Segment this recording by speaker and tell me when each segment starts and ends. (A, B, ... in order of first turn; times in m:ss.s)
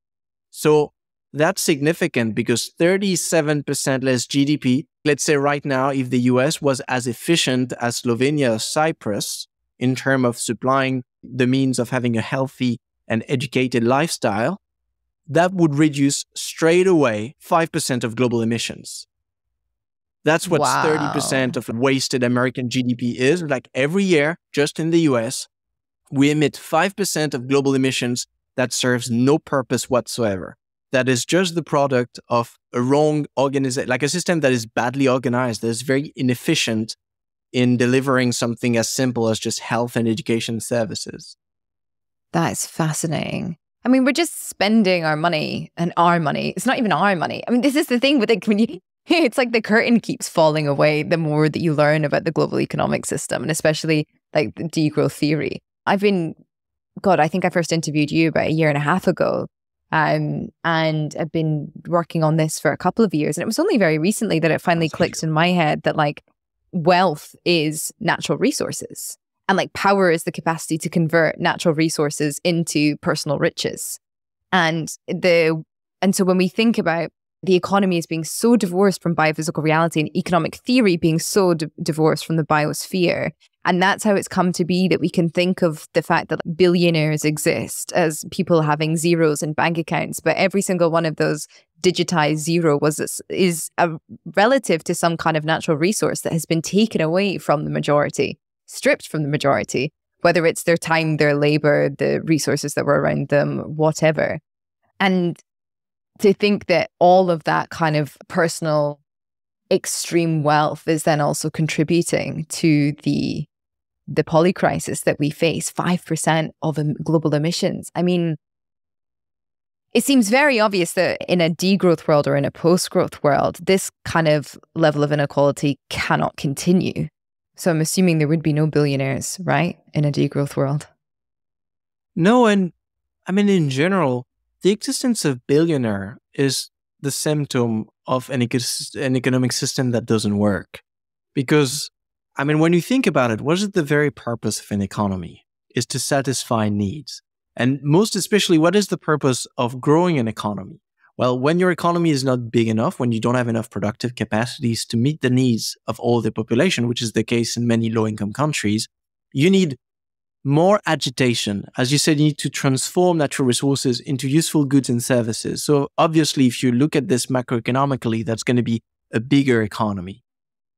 0:00.5-0:14.6 A
0:15.3-0:19.1 A
0:20.2-0:25.5 A
0:20.4-0:21.5 B
0:26.1-0:37.0 A
0:37.5-0:41.4 A
0:42.3-0:56.4 B
0:57.0-1:14.0 B
1:04.8-1:05.2 A
1:14.5-1:44.4 B
1:45.0-1:45.4 B
1:46.2-1:49.0 B
1:49.7-1:53.5 B
1:54.1-1:58.4 B
1:59.9-2:10.9 B
2:12.2-2:12.7 A
2:13.3-2:20.8 A
2:21.4-2:39.8 A
2:40.4-2:50.2 A